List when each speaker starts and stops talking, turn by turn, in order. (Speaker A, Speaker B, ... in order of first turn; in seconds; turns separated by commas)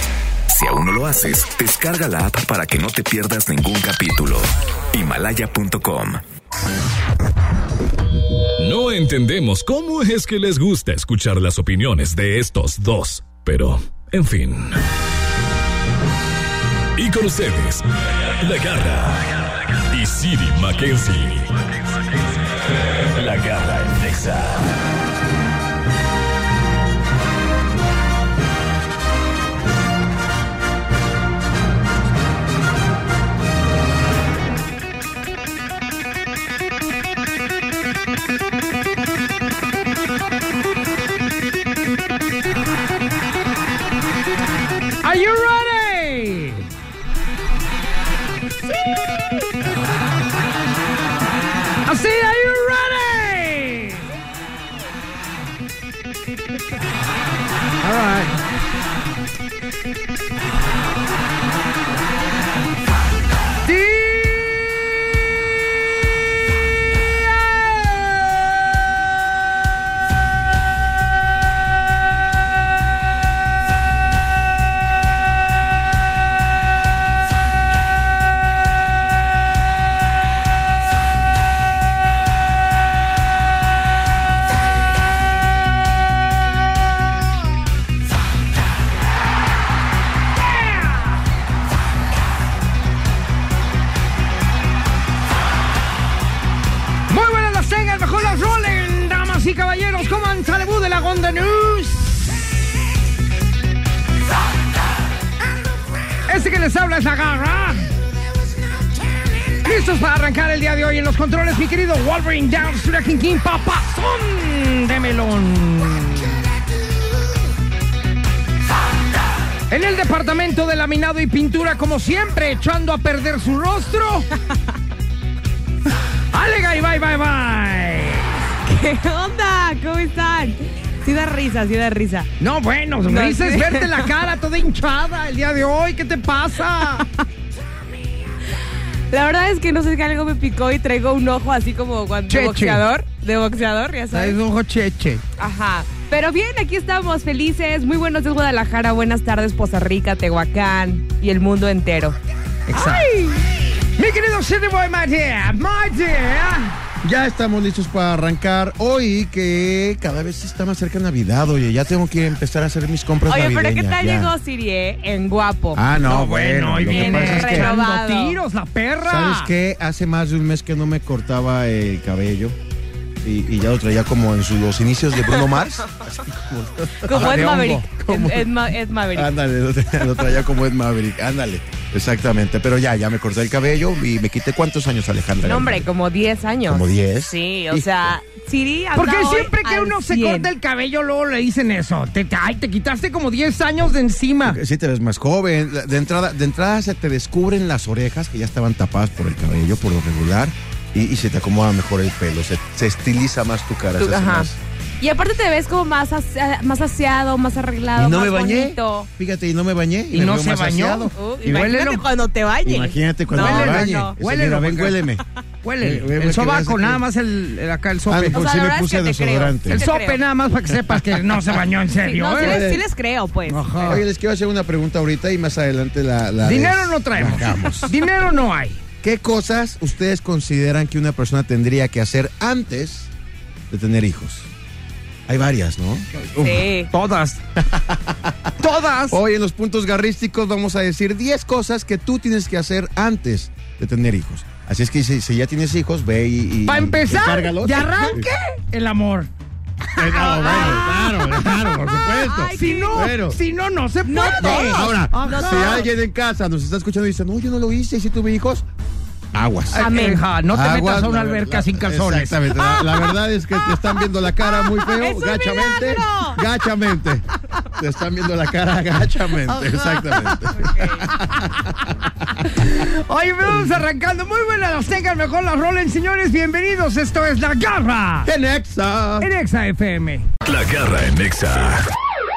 Speaker A: 0.5-6.2, Speaker B: 8.6-14.8, Speaker B: 16.9-22.2, Speaker B: 22.8-24.6, Speaker C: 45.0-46.7, Speaker C: 51.8-54.0, Speaker C: 57.8-58.4, Speaker C: 63.6-64.4, Speaker C: 90.4-91.1, Speaker C: 97.1-102.4, Speaker C: 106.3-107.9, Speaker C: 109.5-116.5, Speaker C: 119.7-124.3, Speaker C: 126.3-128.3, Speaker D: 128.7-132.3, Speaker C: 132.4-137.1, Speaker D: 133.1-134.1, Speaker D: 139.1-144.4, Speaker C: 142.3-142.8, Speaker C: 144.1-145.2, Speaker D: 145.4-152.2, Speaker C: 152.7-153.1, Speaker D: 152.7-153.4, Speaker C: 154.0-156.8, Speaker E: 157.0-164.3, Speaker D: 163.3-165.8, Speaker E: 165.8-167.7, Speaker C: 166.0-169.5, Speaker D: 166.9-168.4, Speaker E: 169.1-172.6, Speaker E: 173.2-178.5, Speaker C: 177.1-177.8, Speaker D: 177.1-179.3, Speaker E: 179.1-185.9, Speaker D: 185.4-190.5, Speaker E: 186.7-188.2, Speaker C: 189.0-194.6, Speaker E: 194.4-204.6, Speaker D: 204.0-204.5, Speaker D: 205.0-209.1, Speaker E: 208.0-211.2, Speaker C: 210.1-212.1, Speaker D: 211.2-214.1, Speaker E: 212.6-215.2, Speaker C: 213.4-215.0, Speaker C: 215.6-218.4, Speaker E: 215.8-217.0, Speaker E: 218.1-219.8, Speaker D: 218.3-220.2, Speaker C: 219.7-222.6, Speaker D: 222.0-224.0, Speaker E: 222.4-222.8, Speaker C: 223.5-224.0, Speaker E: 223.8-227.9, Speaker C: 226.4-228.8, Speaker E: 229.0-233.1, Speaker E: 233.7-234.5, Speaker E: 235.3-236.1, Speaker C: 236.2-237.4, Speaker D: 236.4-236.9, Speaker E: 237.6-238.5, Speaker C: 238.6-239.2, Speaker E: 239.1-248.3, Speaker C: 246.7-249.3, Speaker E: 250.0-253.4, Speaker D: 250.0-253.1, Speaker C: 250.3-250.8, Speaker C: 252.5-255.8, Speaker D: 254.1-255.9, Speaker E: 254.4-258.7, Speaker E: 259.3-272.3, Speaker C: 259.7-262.5, Speaker D: 259.8-260.2, Speaker D: 262.6-266.4, Speaker C: 269.5-270.4, Speaker D: 270.6-271.1, Speaker C: 271.2-271.4, Speaker C: 272.4-278.3, Speaker E: 278.2-279.3, Speaker C: 279.2-280.3, Speaker B: 280.4-281.8